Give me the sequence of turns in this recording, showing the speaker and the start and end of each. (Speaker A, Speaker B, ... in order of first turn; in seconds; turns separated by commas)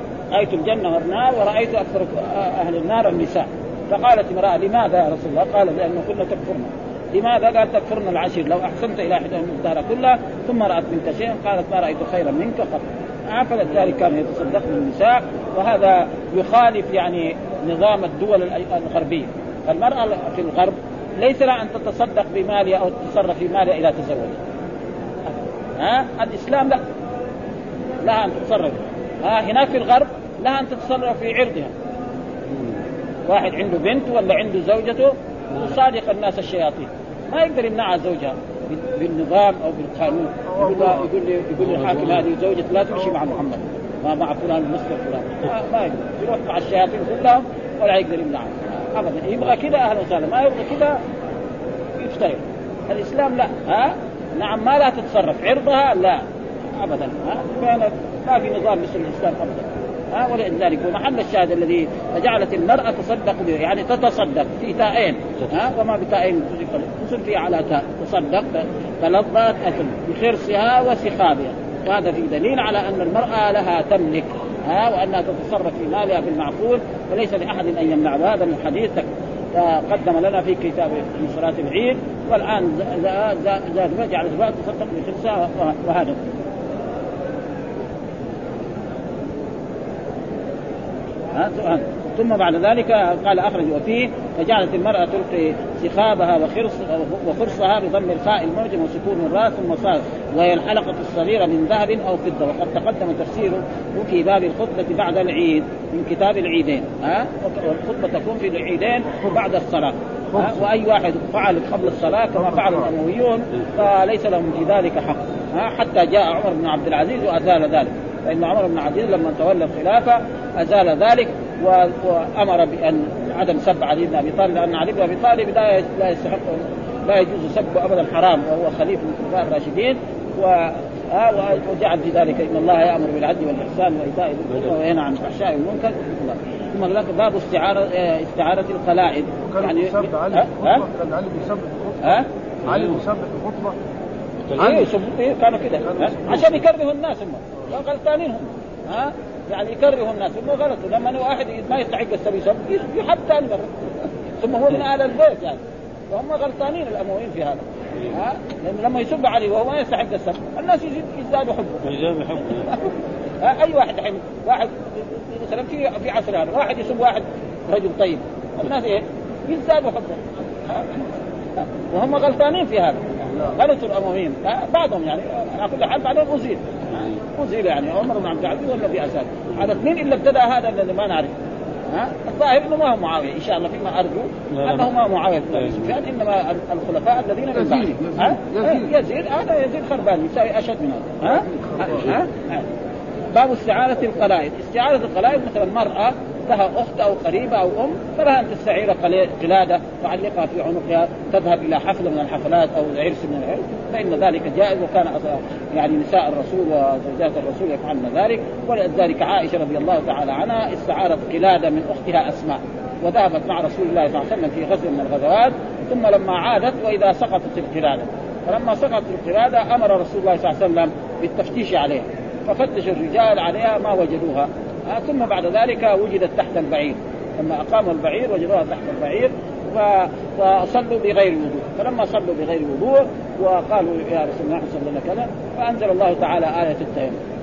Speaker A: 0.3-24.4, Speaker A: 25.8-26.8, Speaker A: 28.0-31.7, Speaker B: 32.5-32.8, Speaker A: 33.3-51.0, Speaker C: 40.5-41.1, Speaker B: 41.6-42.2, Speaker A: 52.0-86.2, Speaker B: 65.4-65.7, Speaker A: 91.3-140.8, Speaker C: 110.3-110.6, Speaker C: 112.4-112.9, Speaker C: 139.4-143.8, Speaker B: 142.7-143.0, Speaker B: 144.5-144.9, Speaker A: 144.6-155.6, Speaker C: 144.6-144.9, Speaker C: 145.9-146.6, Speaker A: 156.1-161.8, Speaker B: 161.8-162.8, Speaker A: 162.6-181.3, Speaker A: 181.9-192.7, Speaker B: 184.5-184.9, Speaker B: 185.6-185.9, Speaker C: 187.5-188.9, Speaker C: 191.5-192.1, Speaker A: 193.3-237.2